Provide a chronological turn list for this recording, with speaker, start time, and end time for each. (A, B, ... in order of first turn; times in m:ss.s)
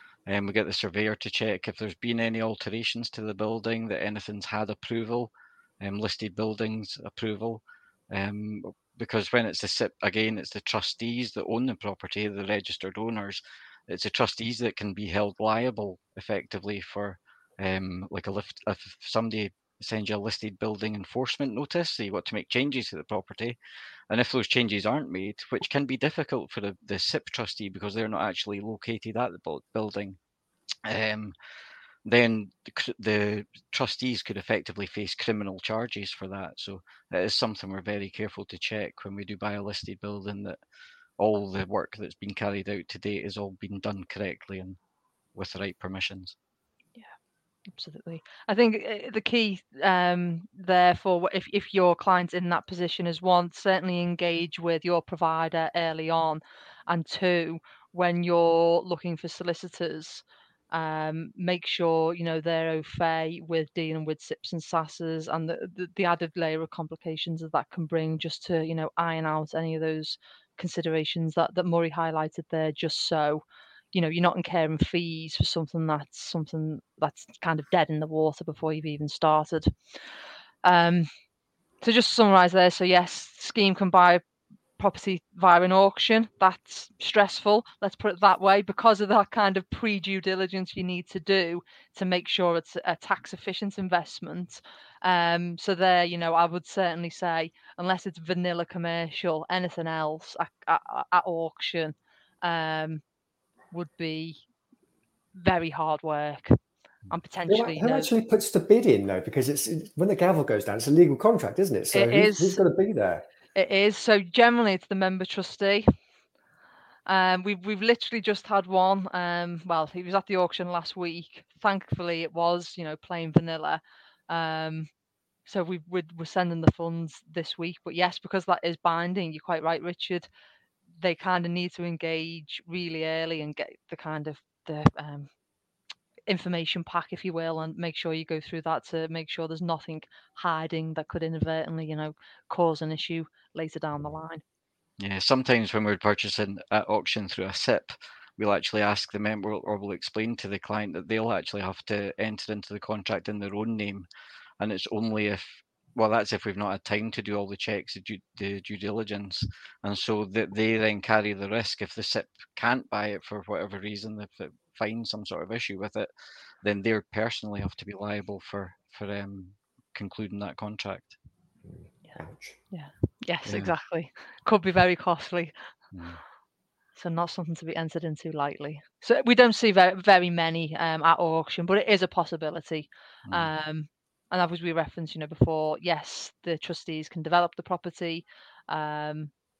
0:00.3-0:23.6 A
0:24.1-0:30.2 A
0:30.8-0:31.4 A
0:32.0-0:40.6 A
0:41.2-0:44.8 A
0:45.4-0:46.4 A
0:47.7-1:19.7 B
1:20.6-1:21.1 B
1:21.8-1:24.2 B
1:24.8-1:43.0 B
1:43.7-1:44.4 B
1:45.4-1:46.6 B
1:47.1-1:48.1 B
1:47.5-1:53.2 C
1:51.9-1:52.6 B
1:53.6-1:55.9 B
1:57.1-2:04.9 B
2:05.5-2:10.3 B
2:11.0-2:15.3 B
2:16.3-2:24.4 B
2:25.0-2:34.1 A
2:34.6-2:46.1 A
2:46.6-2:51.2 A
2:51.6-2:52.6 C
2:52.7-2:55.5 B
2:53.5-2:53.7 A
2:55.9-2:56.2 A
2:57.0-3:09.3 B